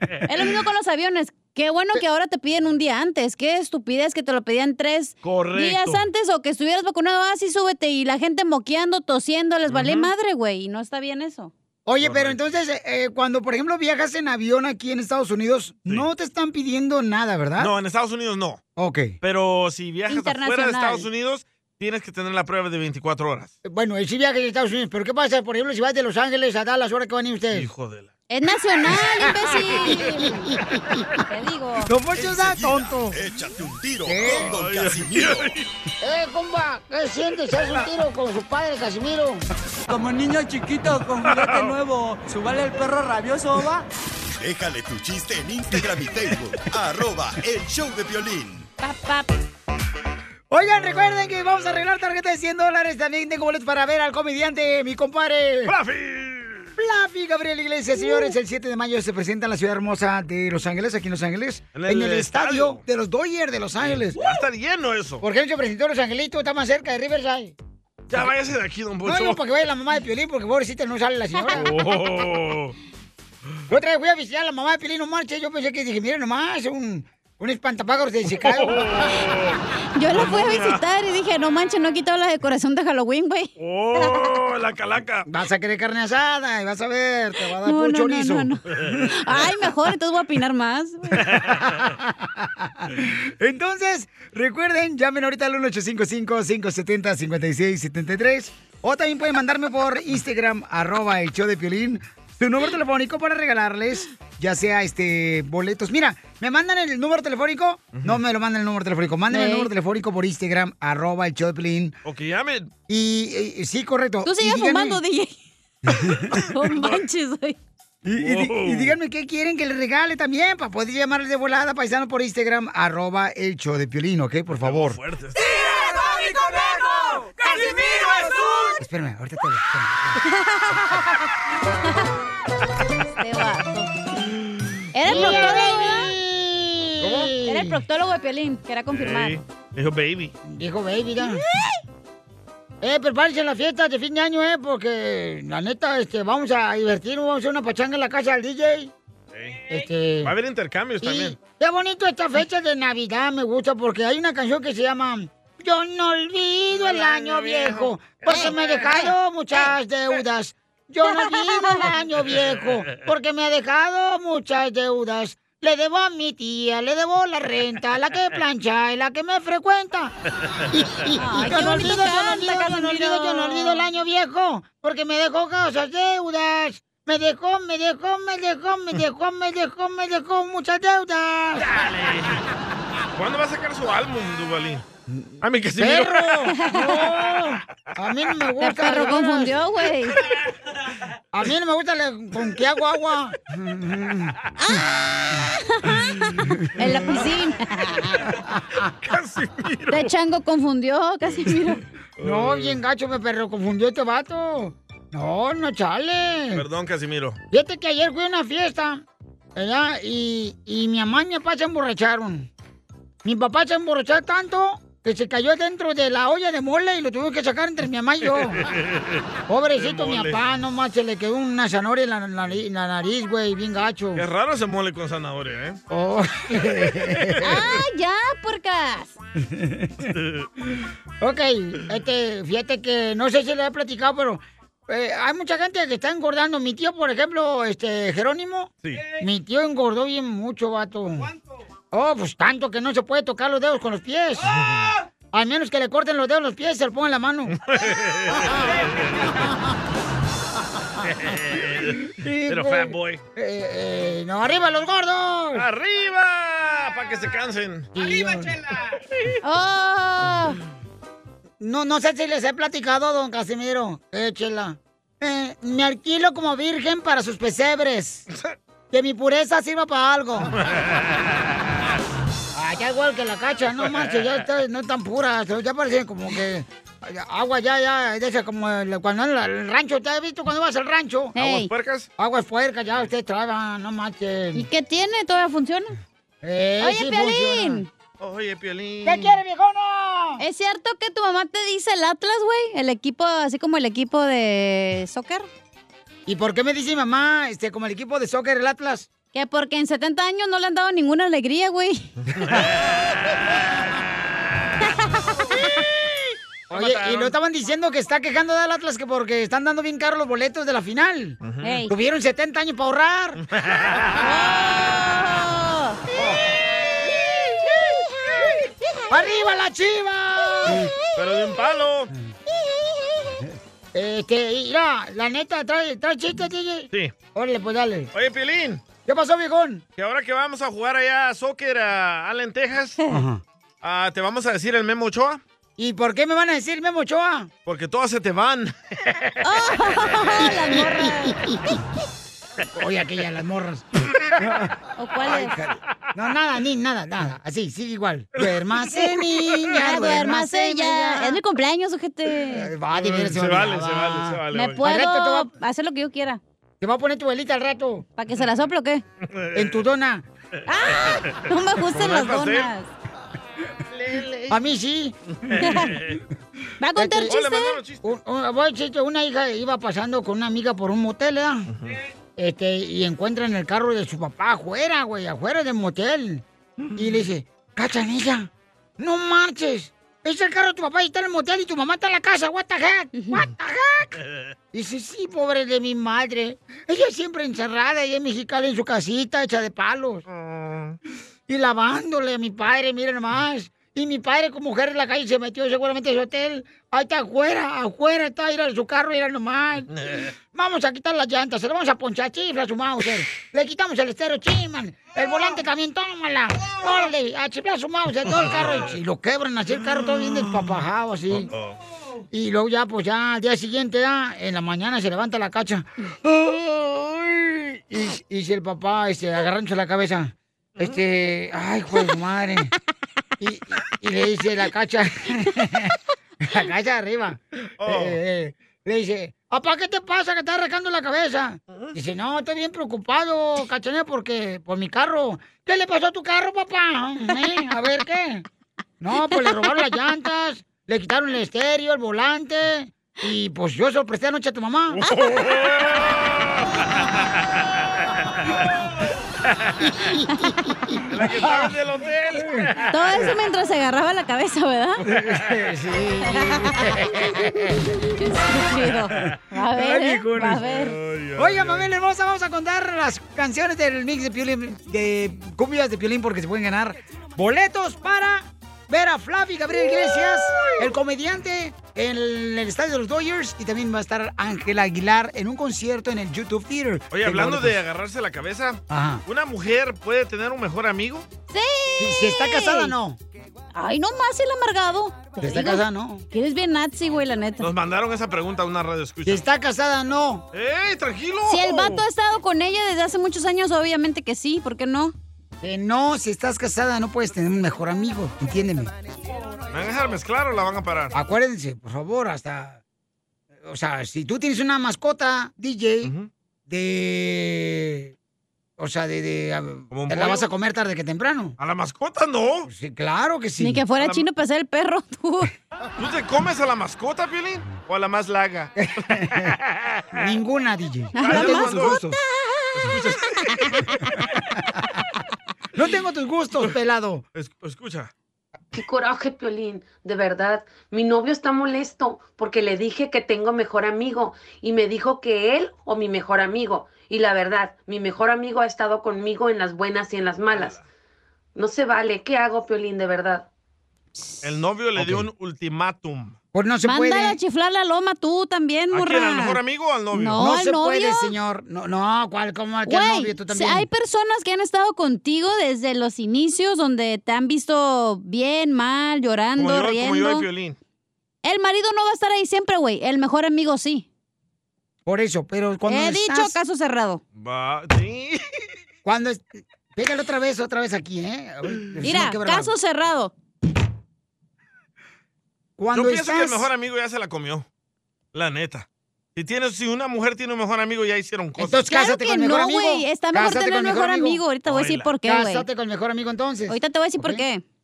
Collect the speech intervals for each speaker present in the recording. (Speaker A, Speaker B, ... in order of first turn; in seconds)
Speaker A: 0.3-11.5, 20.1-21.1, 28.3-30.4, 31.3-31.9, 48.8-49.3, 58.0-58.3, 80.0-84.4, 87.6-91.2, 109.3-109.7, 114.2-115.4, 116.3-117.6, 130.2-131.2, 133.1-133.9, 134.9-136.1, 137.4-139.3, 141.2-141.7, 158.3-159.7, 161.1-161.8, 171.2-173.8, 186.5-187.0, 188.6-190.2, 194.6-198.2, 199.9-201.8, 227.4-229.2, 259.4-260.6, 281.3-281.7, 284.5-285.9, 286.8-287.9, 290.4-295.5, 299.3-302.1, 304.9-305.4, 311.6-311.9, 314.2-316.0, 339.4-341.4, 344.9-345.6, 349.6-352.7, 354.5-356.4, 358.2-359.0, 360.7-362.9, 365.6-365.9, 366.8-367.8, 445.1-445.3, 452.9-455.0, 458.2-461.0, 481.5-482.9, 483.7-487.7, 491.5-495.1, 513.6-515.5, 521.1-522.7, 523.4-524.0, 544.1-544.4, 546.9-549.6, 550.1-551.3, 552.9-560.5, 561.4-564.1, 565.9-567.2, 572.0-573.3, 581.9-585.6, 586.7-587.6
Speaker B: 5.2-6.0, 9.7-10.1, 12.0-12.6, 17.6-18.6, 19.2-23.5, 27.5-28.1, 34.2-35.6, 41.3-41.7, 50.8-51.7, 55.6-56.7, 61.7-62.8, 63.8-65.2, 68.1-69.4, 71.6-72.7, 78.4-79.6, 80.1-80.8, 83.6-85.3, 91.3-91.6, 107.9-108.2, 112.0-112.7, 118.2-118.9, 124.5-125.6, 137.0-137.3, 138.9-140.3, 149.3-149.7, 150.2-151.3, 156.7-158.9, 162.2-162.7, 181.6-182.4, 183.2-184.8, 185.4-186.5, 199.0-200.1, 202.2-202.8, 206.5-207.4, 218.6-219.2, 219.8-220.4, 224.1-225.8, 227.1-227.4, 230.0-230.5, 238.8-239.1, 247.6-249.3, 251.1-253.2, 255.5-257.9, 270.7-271.1, 281.4-282.1, 288.2-289.3, 306.7-307.4, 311.4-311.8, 313.5-314.2, 321.1-322.1, 328.1-328.8, 330.0-333.0, 333.8-335.4, 337.7-339.3, 352.9-354.8, 359.2-359.8, 361.9-362.7, 363.9-364.6, 365.5-366.2, 367.3-368.1, 371.7-371.9, 390.3-391.0, 399.9-400.3, 408.2-409.0, 409.7-410.8, 411.3-411.8, 427.8-428.2, 444.9-447.3, 451.1-453.3, 455.2-455.5, 460.6-461.9, 477.1-481.2, 487.6-489.4, 490.5-492.0, 499.7-501.1, 506.0-506.3, 509.9-510.5, 511.6-512.7, 514.0-514.2, 516.0-520.2, 521.2-522.0, 522.8-523.9, 527.3-528.1, 540.5-540.8, 544.4-546.4, 548.9-550.4, 559.6-560.8, 567.3-568.4, 575.9-577.6, 578.3-581.8, 584.6-585.1
Speaker C: 11.8-17.7, 18.8-19.1, 23.6-27.7, 28.9-31.0, 31.9-33.2, 34.0-34.5, 36.0-39.4, 50.5-55.7, 56.8-64.2, 65.2-67.5, 69.0-71.7, 73.7-79.1, 85.3-88.9, 91.3-111.9, 112.9-115.0, 115.9-116.4, 118.0-125.0, 128.8-130.2, 135.0-137.8, 140.4-141.4, 142.8-148.9, 149.7-150.3, 151.0-170.1, 170.7-181.7, 185.1-189.6, 191.3-194.3, 202.2-206.6, 207.5-209.0, 209.6-212.5, 213.2-218.6, 219.5-224.2, 225.9-227.6, 229.4-230.1, 231.2-241.3, 241.9-244.6, 245.3-247.6, 248.5-248.7, 252.2-255.7, 257.9-258.6, 261.6-268.2, 268.9-270.6, 272.5-281.3, 282.2-284.6, 286.4-287.8, 289.0-290.4, 296.2-299.1, 306.7-311.4, 311.9-313.4, 319.1-320.9, 323.4-328.1, 329.0-329.8, 333.1-333.4, 335.8-337.5, 340.4-341.6, 342.7-351.4, 352.5-355.5, 356.8-358.0, 359.5-360.2, 364.5-366.2, 366.9-367.4, 368.0-371.7, 372.4-376.4, 376.9-384.2, 384.7-390.2, 391.5-399.9, 400.5-411.5, 412.3-422.7, 423.4-438.4, 439.0-445.0, 449.9-451.7, 455.0-457.9, 459.6-460.6, 461.4-477.8, 478.9-479.2, 482.0-483.2, 485.4-486.2, 489.2-490.4, 495.6-498.9, 501.1-502.8, 503.6-506.1, 506.7-508.1, 508.8-511.6, 512.6-513.8, 518.8-519.5, 520.1-522.2, 525.7-527.2, 545.0-545.2, 546.5-547.4, 550.3-553.9, 565.0-566.5, 569.0-572.7, 575.8-576.7, 581.5-584.4, 585.2-587.4
Speaker D: 32.1-35.5, 44.4-48.7
Speaker E: 39.9-43.9
Speaker F: 528.7-540.8, 541.5-543.5